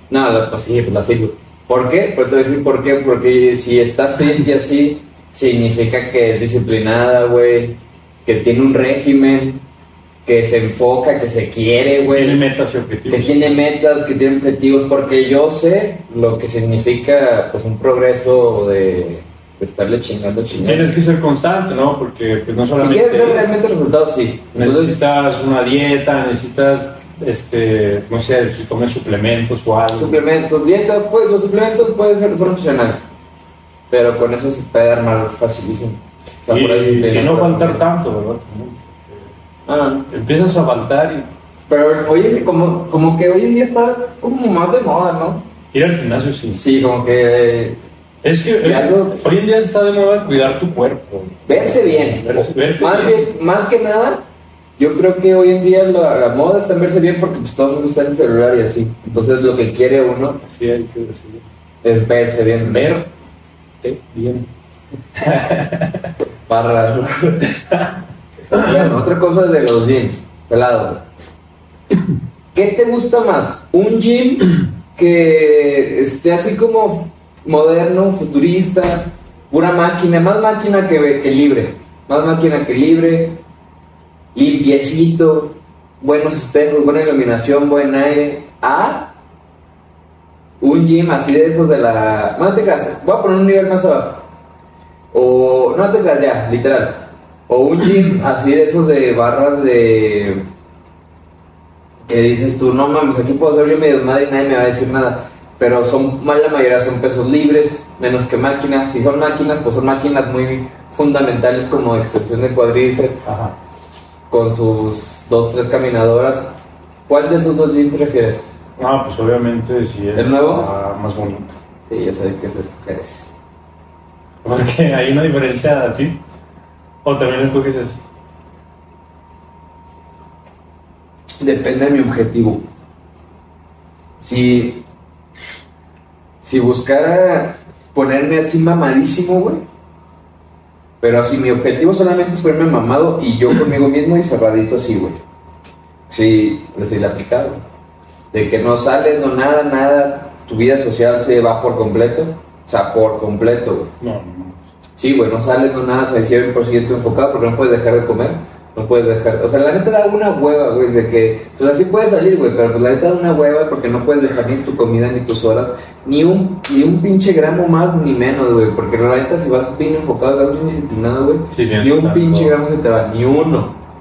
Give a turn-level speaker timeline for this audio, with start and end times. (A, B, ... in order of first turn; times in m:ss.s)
0:00.1-0:09.6 A
0:10.2-0:12.4 A
0:12.0-0:13.6 B
0:13.1-0:20.9 A
0:20.5-0:23.5 B
0:22.8-0:25.0 A
0:24.5-0:30.2 B
0:29.9-0:33.1 A
0:33.9-0:37.8 A
0:36.5-0:39.3 B
0:39.7-0:40.1 A
0:40.1-0:41.3 B
0:41.7-0:45.5 A
0:45.7-0:46.6 B
0:46.5-0:47.8 A
0:48.2-0:53.3 B
0:48.6-0:49.2 A
0:51.5-0:54.2 A
0:54.8-1:00.4 A
1:00.4-1:01.5 B
1:01.8-1:03.0 A
1:02.6-1:03.0 B
1:03.8-1:04.5 B
1:05.2-1:06.1 B
1:06.5-1:07.2 A
1:07.1-1:08.0 B
1:08.5-1:08.8 B
1:08.5-1:11.0 A
1:12.5-1:23.4 A
1:24.3-1:29.1 A
1:30.6-1:34.2 A
1:35.1-1:40.5 A
1:42.1-1:53.2 A
1:53.2-1:53.6 B
1:54.3-1:56.5 A
1:57.1-1:58.5 A
1:58.8-2:01.6 B
2:00.2-2:00.7 A
2:01.9-2:03.3 A
2:04.4-2:06.2 B
2:07.0-2:08.0 B
2:11.4-2:12.6 A
2:14.2-2:14.8 A
2:16.4-2:19.6 A
2:21.0-2:25.2 A
2:26.1-2:27.6 A
2:28.3-2:33.9 A
2:34.0-2:34.6 B
2:35.0-2:53.8 A
2:51.5-2:52.6 B